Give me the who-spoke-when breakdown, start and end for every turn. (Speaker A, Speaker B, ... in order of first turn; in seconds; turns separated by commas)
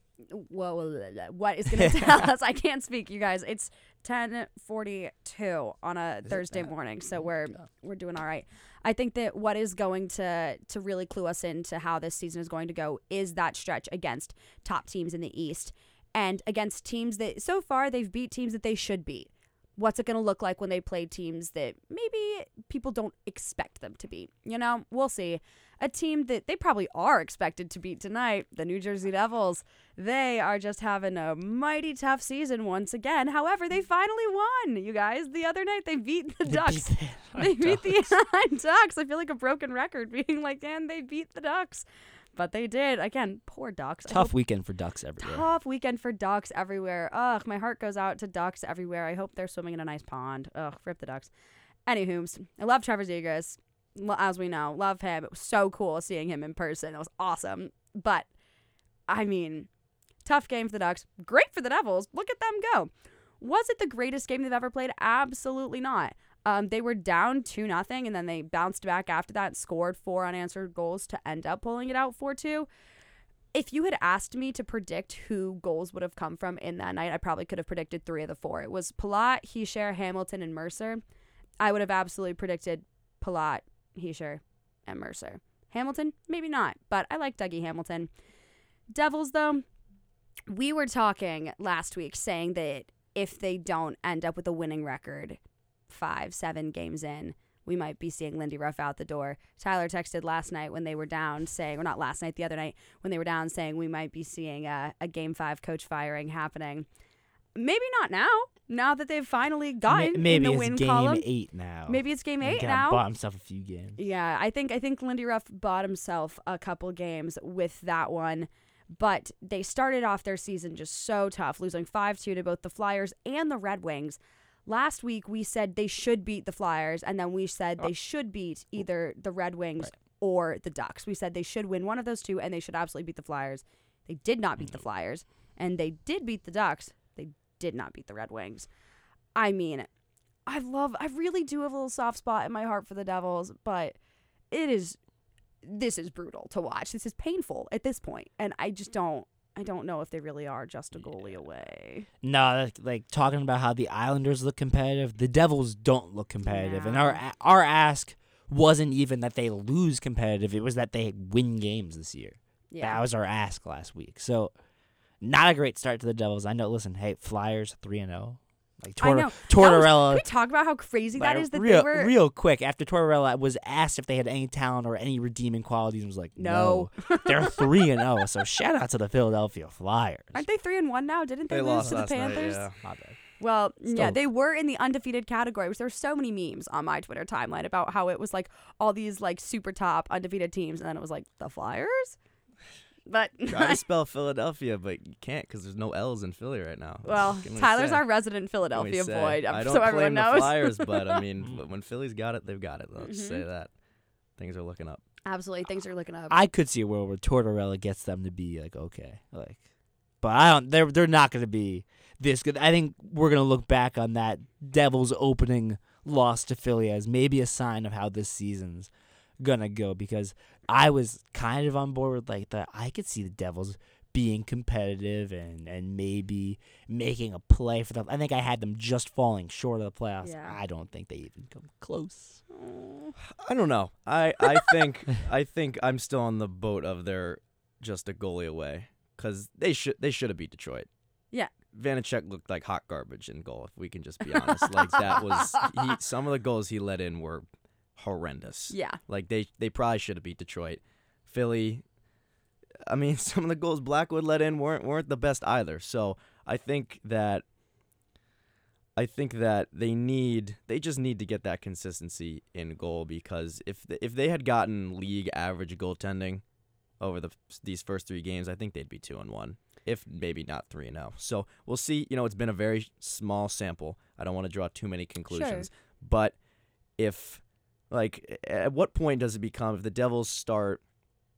Speaker A: 0.2-44.3, Speaker B: 1.7-2.3, Speaker B: 6.3-6.7, Speaker B: 36.5-38.1, Speaker B: 44.1-45.5, Speaker A: 45.2-51.3, Speaker A: 51.9-58.3, Speaker A: 59.1-59.7, Speaker A: 60.2-72.7, Speaker A: 73.5-81.0, Speaker A: 81.6-88.1, Speaker A: 88.9-89.6, Speaker A: 90.5-106.9, Speaker A: 107.5-111.2, Speaker B: 109.9-114.0, Speaker A: 111.9-113.0, Speaker A: 114.0-138.7, Speaker A: 139.3-139.9, Speaker A: 140.5-143.9, Speaker A: 144.5-145.0, Speaker A: 145.6-152.1, Speaker B: 152.2-164.5, Speaker A: 156.4-157.2, Speaker A: 162.7-163.0, Speaker B: 165.2-170.2, Speaker A: 169.0-172.1, Speaker B: 171.2-180.4, Speaker A: 176.4-178.1, Speaker A: 180.3-182.7, Speaker C: 181.5-182.8, Speaker B: 181.8-183.2, Speaker A: 183.4-192.2, Speaker B: 183.9-184.2, Speaker A: 193.1-193.8, Speaker C: 193.5-198.1, Speaker A: 197.0-201.2, Speaker C: 198.7-203.7, Speaker A: 203.0-203.4, Speaker C: 204.4-205.0, Speaker A: 205.2-206.4, Speaker B: 206.3-209.6, Speaker B: 210.2-232.4, Speaker A: 230.2-230.6, Speaker A: 232.5-233.1, Speaker C: 233.3-240.9, Speaker C: 241.7-247.4, Speaker A: 244.6-245.9, Speaker C: 247.9-251.8, Speaker A: 248.7-249.0, Speaker C: 252.8-257.4, Speaker C: 258.9-266.4, Speaker C: 267.0-276.3, Speaker A: 275.3-275.7, Speaker C: 277.0-280.8